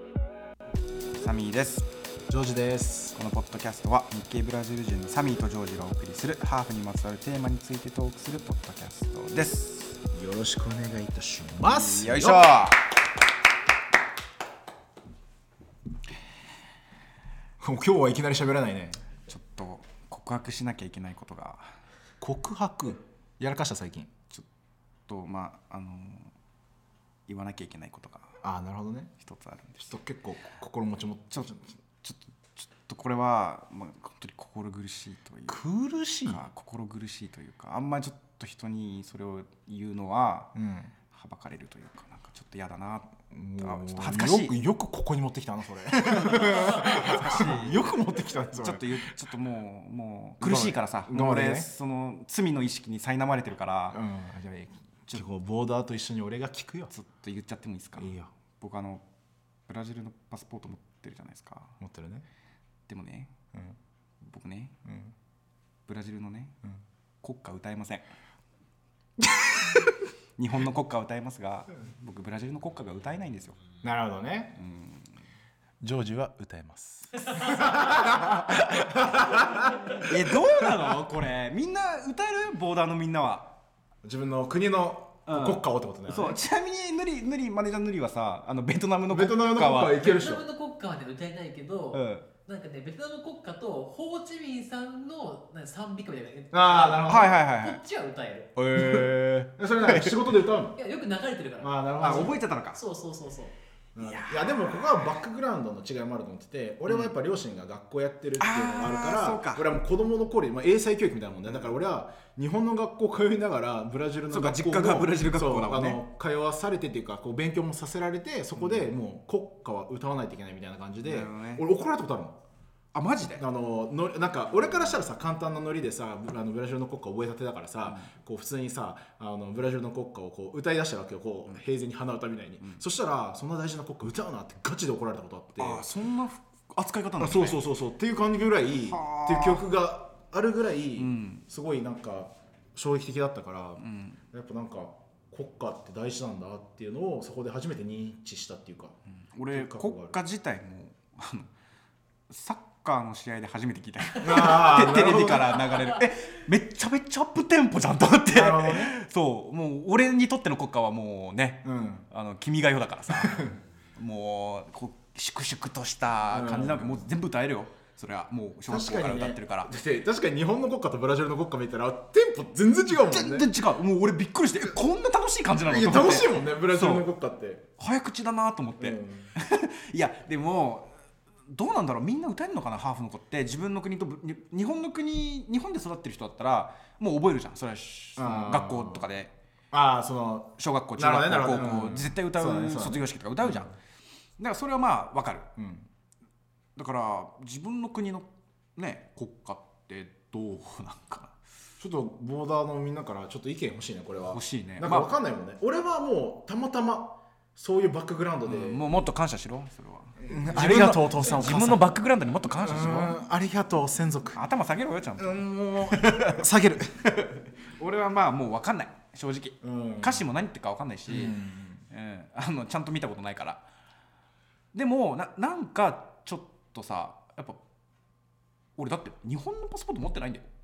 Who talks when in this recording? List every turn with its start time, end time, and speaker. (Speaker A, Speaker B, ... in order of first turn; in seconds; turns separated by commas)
Speaker A: 1.2-1.9, Speaker B: 2.3-3.2, Speaker A: 3.1-10.0, Speaker B: 10.1-12.5, Speaker A: 11.6-12.8, Speaker B: 17.6-19.0, Speaker A: 19.3-21.6, Speaker B: 22.2-24.1, Speaker A: 25.1-26.3, Speaker A: 27.3-28.4, Speaker B: 28.4-29.1, Speaker A: 29.2-29.9, Speaker B: 29.8-31.7, Speaker A: 31.3-35.6, Speaker B: 35.5-36.4, Speaker A: 36.2-40.5, Speaker B: 40.5-40.9, Speaker A: 41.1-44.5, Speaker B: 43.3-49.2, Speaker A: 46.0-54.0, Speaker B: 50.4-51.7, Speaker B: 53.9-56.9, Speaker A: 56.9-59.0, Speaker B: 58.0-58.3, Speaker A: 59.7-61.8, Speaker B: 61.8-62.3, Speaker A: 62.9-63.3, Speaker A: 64.2-64.7, Speaker B: 64.8-65.1, Speaker A: 65.9-66.5, Speaker A: 67.2-68.0, Speaker A: 69.2-73.6, Speaker B: 73.8-74.5, Speaker A: 74.5-75.1, Speaker B: 75.8-80.1, Speaker A: 79.9-83.5, Speaker B: 84.0-86.4, Speaker A: 85.3-90.0, Speaker B: 89.1-90.4, Speaker C: 90.0-98.5, Speaker A: 91.9-92.3, Speaker B: 96.5-97.3, Speaker A: 97.0-97.8, Speaker A: 98.5-100.3, Speaker B: 98.7-100.8, Speaker C: 100.7-103.5, Speaker B: 101.6-102.4, Speaker A: 102.0-102.8, Speaker B: 103.9-122.4, Speaker A: 104.0-105.0, Speaker A: 106.9-107.1, Speaker A: 108.4-109.6, Speaker A: 114.3-116.0, Speaker A: 118.5-118.9, Speaker A: 121.0-121.6, Speaker A: 122.9-123.4, Speaker B: 123.2-135.9, Speaker A: 135.6-137.6, Speaker B: 137.2-148.9, Speaker A: 138.8-139.7, Speaker A: 141.0-141.4, Speaker A: 143.8-144.2, Speaker A: 149.3-151.5, Speaker B: 149.5-150.2, Speaker A: 152.3-169.7, Speaker B: 154.2-155.7, Speaker B: 158.3-158.9, Speaker B: 161.6-162.1, Speaker B: 163.1-163.6, Speaker B: 166.3-167.1, Speaker B: 168.7-173.5, Speaker A: 172.9-177.1, Speaker B: 175.7-177.6, Speaker A: 177.8-180.9, Speaker B: 178.8-179.3, Speaker A: 181.5-189.3, Speaker B: 188.2-189.1, Speaker B: 189.7-193.7, Speaker A: 190.6-193.8, Speaker A: 194.4-195.5, Speaker B: 195.6-195.9, Speaker A: 196.8-201.3, Speaker B: 201.8-208.8, Speaker A: 204.2-205.1, Speaker A: 208.4-213.2, Speaker B: 210.2-211.9, Speaker B: 212.6-214.4, Speaker A: 214.3-216.5, Speaker B: 215.2-217.1, Speaker A: 217.1-221.4, Speaker B: 219.6-220.2, Speaker B: 221.1-221.8, Speaker A: 221.9-223.6, Speaker A: 224.7-227.6, Speaker A: 228.8-230.5